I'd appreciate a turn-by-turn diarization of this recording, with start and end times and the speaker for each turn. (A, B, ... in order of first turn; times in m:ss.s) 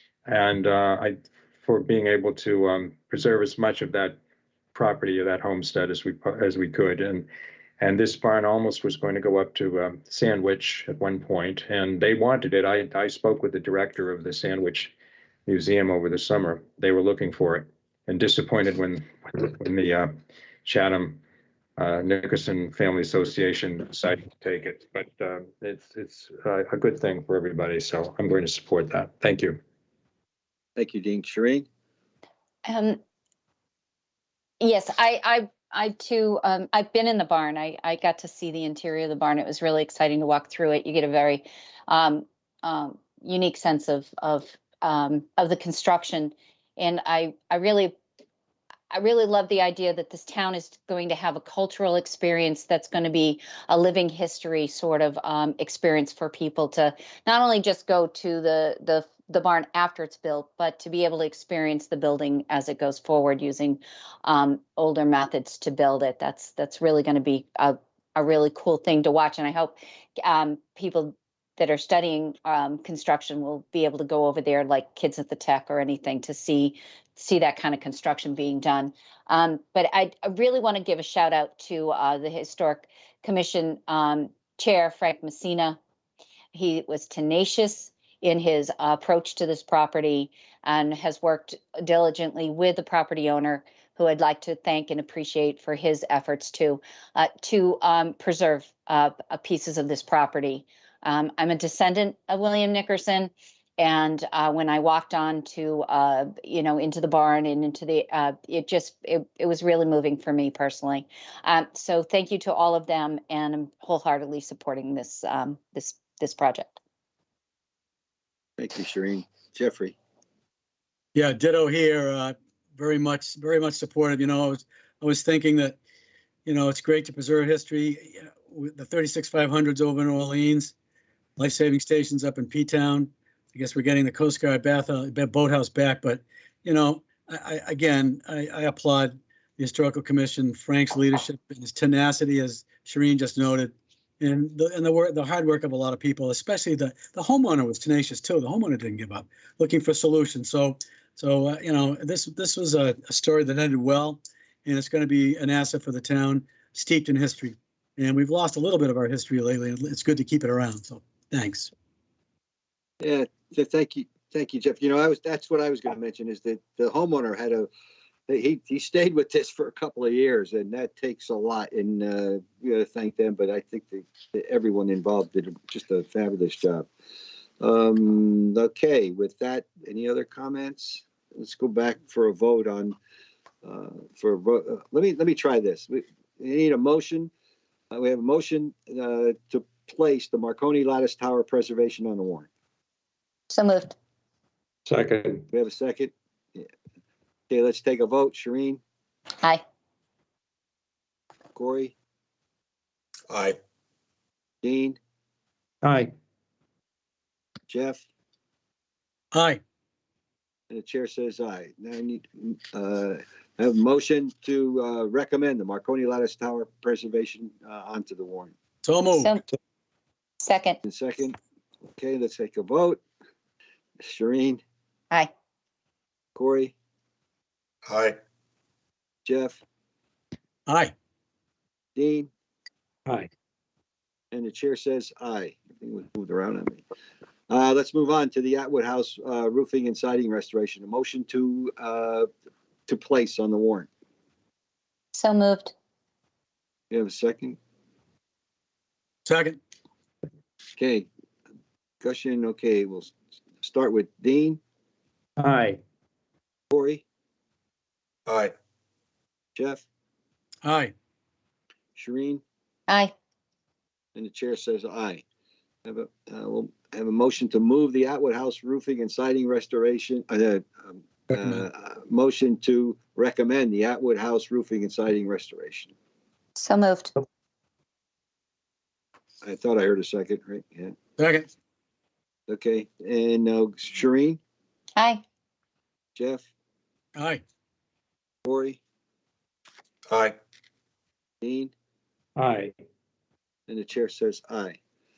0:00.2-0:04.2 A
0:04.7-0:07.3 A
0:07.8-0:14.9 A
0:15.5-0:20.1 A
0:20.6-0:21.2 A
0:21.8-0:29.6 A
0:30.8-0:31.6 B
0:32.6-0:33.0 C
0:34.6-0:47.9 C
0:48.9-1:25.8 C
1:26.5-1:56.8 C
1:58.6-1:59.9 B
2:01.1-2:05.8 D
2:06.4-2:10.7 D
2:11.4-2:41.7 D
2:43.0-2:47.7 B
2:48.3-2:56.9 B
2:57.6-3:03.0 B
3:03.6-3:07.3 B
3:07.9-3:12.5 B
3:13.5-3:13.9 C
3:14.8-3:15.4 A
3:15.5-3:16.7 B
3:17.5-3:18.8 B
3:21.5-3:21.9 B
3:24.6-3:25.0 B
3:25.8-3:26.1 A
3:27.7-3:28.0 B
3:29.3-3:29.6 D
3:30.7-3:38.5 B
3:38.8-3:39.3 D
3:39.1-3:39.4 C
3:40.4-3:40.8 C
3:40.8-3:41.4 B
3:42.0-3:43.0 B
3:44.0-3:44.6 B
3:46.3-3:46.7 B
3:49.2-3:49.6 B
3:50.7-3:50.9 D
3:52.0-3:52.3 B
3:54.3-3:56.8 B
3:57.5-4:02.3 B
4:02.9-4:03.9 B
4:05.1-4:05.7 C
4:06.9-4:07.6 B
4:09.2-4:09.6 D
4:10.8-4:11.1 B
4:12.0-4:14.6 B
4:15.4-4:15.8 A
4:16.7-4:17.0 B
4:19.5-4:19.8 B
4:20.6-4:20.9 D
4:22.0-4:22.4 B
4:22.9-4:23.1 C
4:24.1-4:25.2 B
4:25.8-4:35.9 B
4:36.6-4:37.1 C
4:39.4-4:40.9 B
4:41.2-4:41.5 D
4:42.5-4:44.4 B
4:45.0-4:45.2 C
4:46.1-4:46.5 B
4:47.2-4:47.4 D
4:48.4-4:48.8 B
4:51.4-4:51.7 B
4:52.4-4:52.7 A
4:53.7-4:54.8 B